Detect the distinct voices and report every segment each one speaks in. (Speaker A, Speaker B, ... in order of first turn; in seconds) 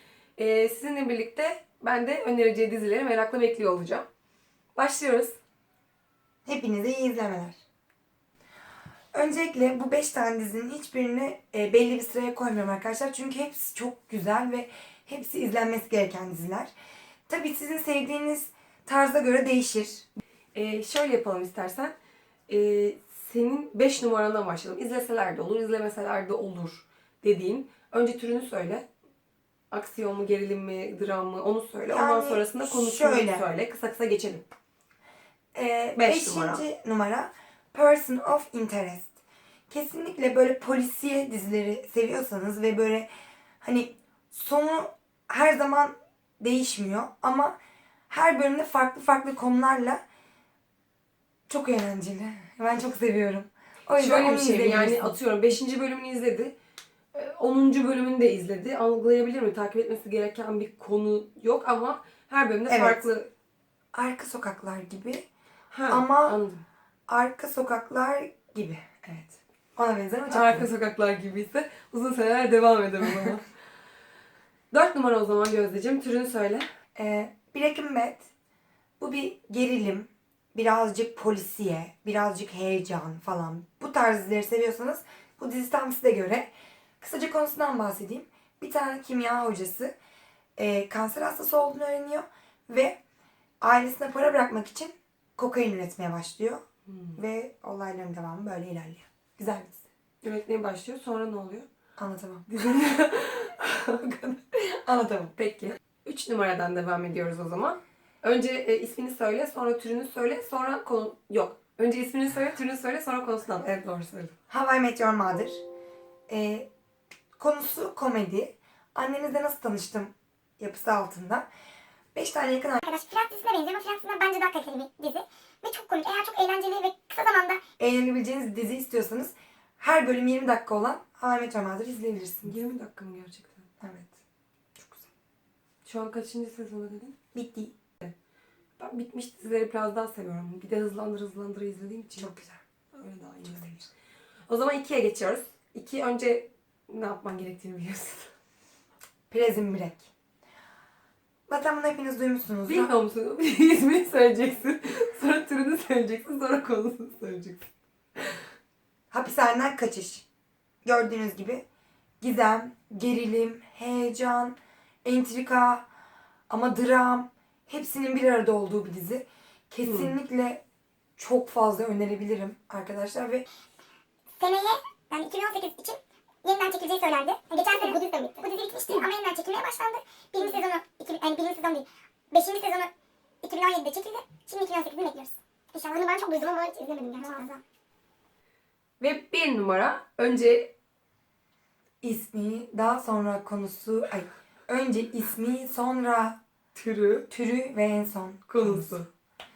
Speaker A: 0.4-4.1, 4.8-5.4, 20.5-21.9, 22.5-28.9, 29.7-34.5, 36.0-36.6, 54.0-56.5, 57.1-63.3, 65.7-66.6, 70.3-73.5, 74.7-76.7, 96.9-97.2, 100.2-101.7, 102.5-104.4, 105.3-114.3, 132.4-133.7, 135.8-137.2, 138.8-142.4, 142.9-143.9, 144.5-148.3, 152.7-157.7, 169.8-170.2, 189.0-190.7, 196.8-197.3, 198.5-199.1
Speaker B: 6.5-7.6, 9.1-16.7, 17.3-20.1, 31.9-33.5, 35.5-39.1, 39.7-43.1, 43.6-47.6, 48.1-50.0, 51.5-55.1, 62.7-63.0, 63.9-65.3, 65.9-66.4, 67.1-70.7, 77.0-78.3, 79.0-89.9, 90.6-93.0, 93.6-96.6, 97.2-99.8, 102.0-102.5, 104.7-105.3, 114.5-115.6, 116.3-116.7, 117.4-121.5, 122.2-122.8, 127.8-132.5, 133.8-134.2, 137.3-137.7, 142.2-142.6, 143.5-143.8, 149.3-150.1, 151.5-152.9, 159.1-160.3, 160.8-161.7, 162.2-165.9, 166.5-170.6, 171.2-173.4, 192.0-196.4, 197.3-199.0
Speaker C: 122.8-127.6, 174.4-182.9, 183.4-187.6